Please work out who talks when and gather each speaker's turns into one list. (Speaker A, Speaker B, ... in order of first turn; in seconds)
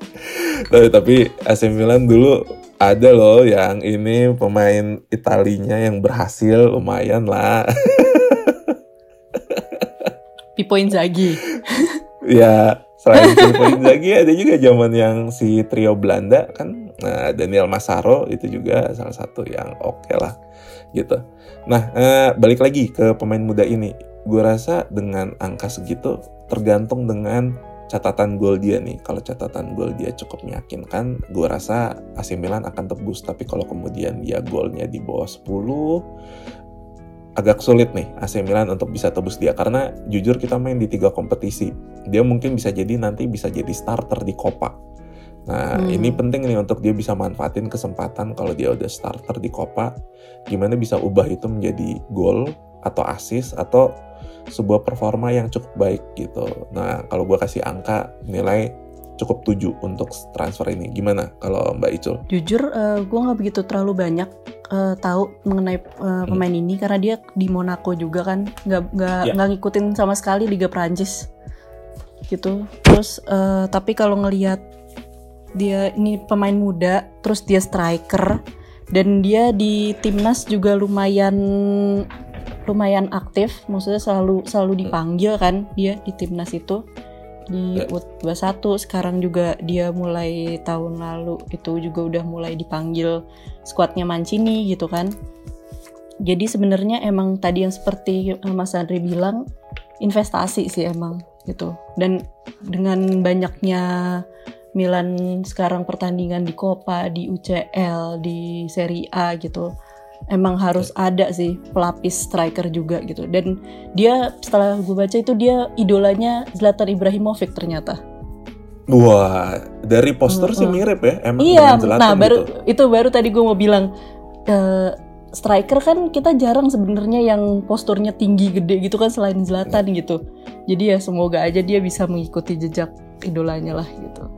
Speaker A: 0.7-8.7, 9.4-10.1, 12.3-20.3, 20.9-36.0, 37.4-44.7, 45.5-49.9, 50.5-53.9, 54.5-62.2, 118.9-122.5
Speaker B: 10.6-12.0, 13.1-13.9, 45.8-46.2, 62.3-71.3, 72.3-74.6, 75.5-78.4, 78.9-82.0, 82.7-86.8, 87.5-95.1, 96.2-99.4, 100.0-104.2, 104.8-109.7, 110.3-118.0, 120.3-120.8, 121.4-123.9, 124.5-134.3